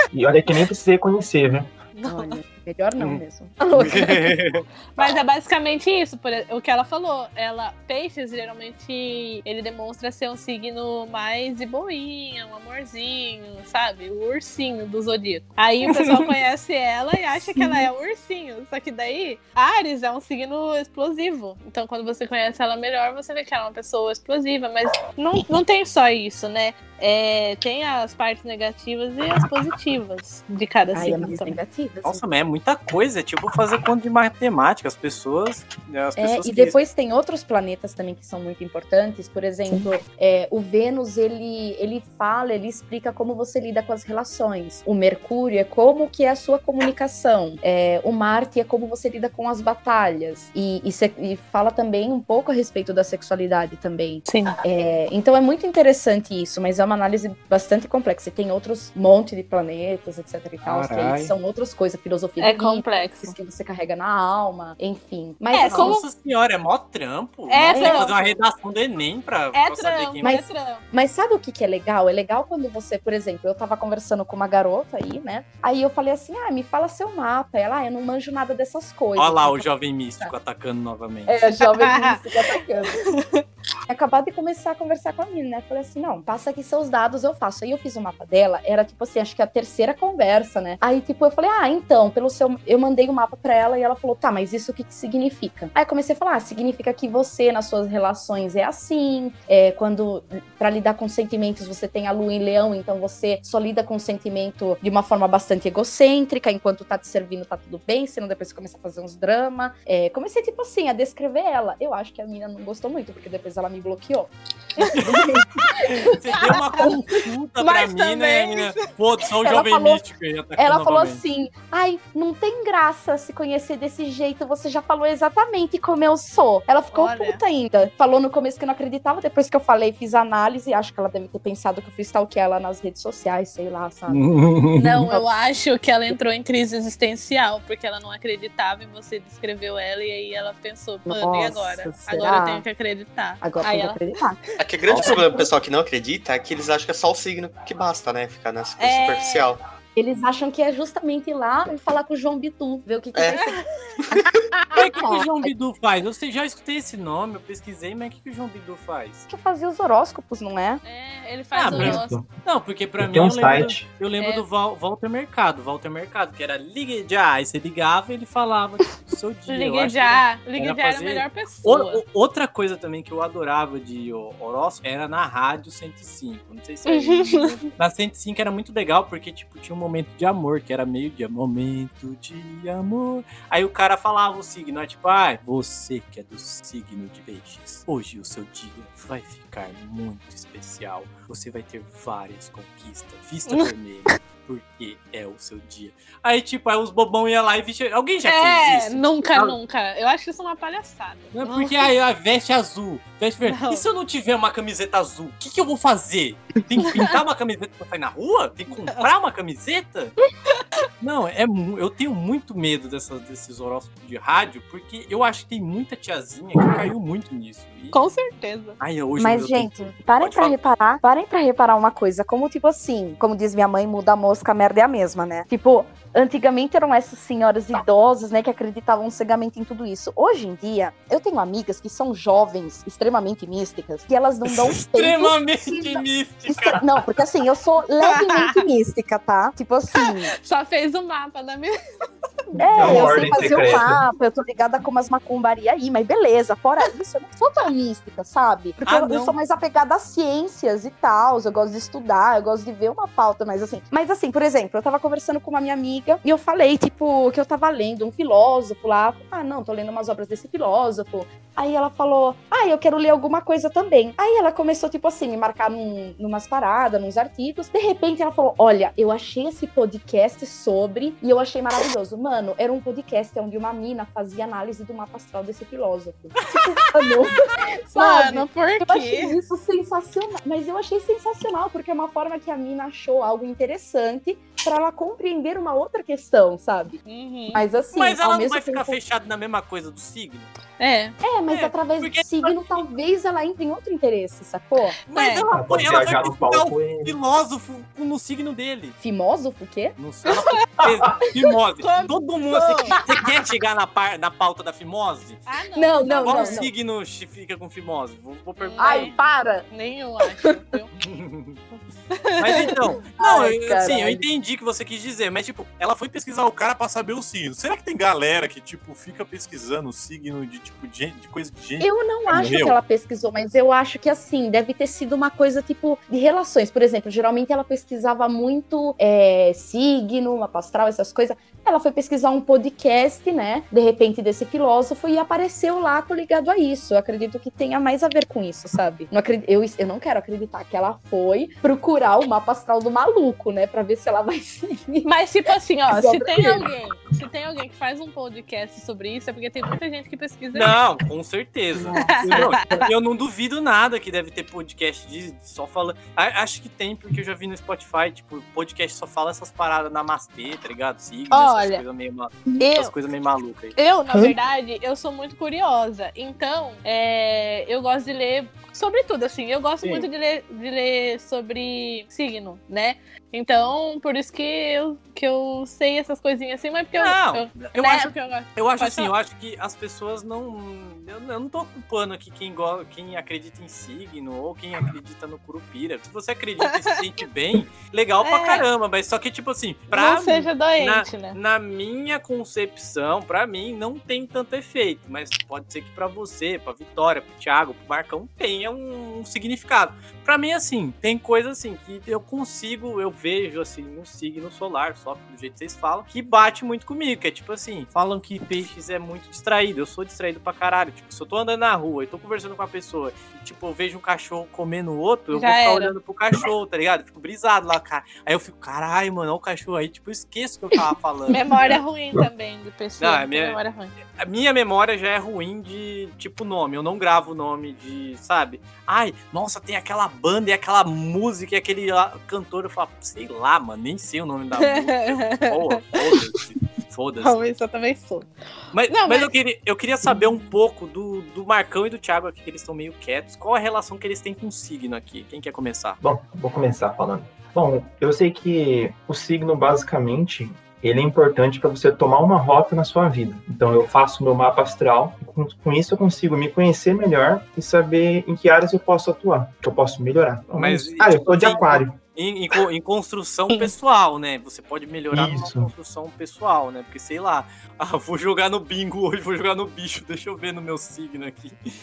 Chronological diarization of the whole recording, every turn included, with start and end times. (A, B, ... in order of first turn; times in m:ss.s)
0:00.1-0:01.7 A
0:01.9-0:02.4 B
0:02.0-0:04.3 C
0:03.7-0:04.6 D
0:05.0-0:31.6 B
0:15.8-0:16.3 D
0:17.6-0:17.8 C
0:30.9-0:32.2 C
0:32.0-0:36.7 D
0:36.2-1:06.0 C
0:54.2-0:54.6 B
1:00.6-1:01.3 D
1:02.4-1:03.3 B
1:05.5-1:06.0 B
1:05.6-1:10.3 D
1:07.5-1:08.3 B
1:07.7-1:08.2 C
1:09.5-1:10.8 B
1:10.2-1:20.3 C
1:19.2-1:21.4 D
1:21.3-1:23.0 C
1:21.5-1:22.2 B
1:23.0-1:23.4 B
1:23.9-1:55.4 C
1:54.9-2:01.2 D
1:56.3-1:57.0 B
1:57.6-1:58.9 B
1:59.4-2:00.0 C
2:00.6-2:14.2 C
2:06.9-2:07.4 B
2:14.1-2:15.0 D
2:14.7-2:24.1 B
2:21.0-2:22.6 C
2:23.4-2:25.5 C
2:24.6-2:29.6 E
2:28.8-2:29.5 B
2:29.9-2:35.5 C
2:33.3-2:33.6 B
2:34.8-2:39.2 D
2:39.3-2:40.8 C
2:40.8-2:42.2 B
2:41.5-3:19.6 D
2:41.7-2:42.3 A
2:43.0-2:43.8 A
2:44.2-2:44.4 B
2:49.5-2:52.0 B
2:56.8-2:57.7 B
3:18.2-3:21.9 B
3:21.3-3:30.1 D
3:23.4-3:23.8 B
3:26.8-3:27.2 B
3:28.8-3:29.1 B
3:31.0-3:38.0 D
3:37.9-3:38.8 B
3:38.8-3:40.5 D
3:39.2-4:00.3 C
3:54.4-3:56.8 D
3:58.0-3:58.6 B
3:59.9-4:01.7 B
4:02.6-4:47.0 C
4:02.7-4:04.0 A
4:02.7-4:03.6 B
4:08.8-4:09.3 D
4:37.9-4:39.4 B
4:47.0-4:47.6 B
4:47.5-4:49.0 C
4:47.9-4:50.5 D
4:50.8-4:51.2 B
4:51.2-4:55.0 C
4:51.5-4:52.8 D
4:55.1-4:59.0 D
4:55.1-4:55.5 B
4:55.5-4:57.2 A
4:59.0-5:00.0 C
5:00.0-5:05.4 D
5:00.3-5:00.6 B
5:01.8-5:03.0 B
5:05.4-5:06.6 B
5:05.7-5:06.7 C
5:06.2-5:09.1 D
5:08.6-5:10.9 B
5:08.8-5:09.6 C
5:11.0-5:11.6 D
5:12.1-5:12.9 B
5:12.4-5:22.8 D
5:13.2-5:14.2 C
5:21.8-5:45.1 C
5:45.0-5:50.8 B
5:45.9-5:46.7 C
5:50.5-6:03.7 D
5:51.8-5:52.8 C
5:51.9-5:52.9 B
6:01.3-6:01.8 B
6:02.6-6:02.9 B
6:03.7-6:19.1 B
6:09.8-6:10.1 D
6:17.0-7:01.8 D
6:26.7-6:27.0 B
6:28.2-6:28.7 B
6:29.9-6:31.4 B
6:55.3-6:55.9 B
7:01.3-7:03.9 B
7:03.0-7:03.6 D
7:04.1-7:17.5 D
7:14.6-7:16.1 B
7:17.2-7:18.3 B
7:18.7-7:26.0 D
7:18.9-7:19.3 B
7:26.0-7:42.0 A
7:40.5-7:51.6 D
7:45.1-7:45.7 A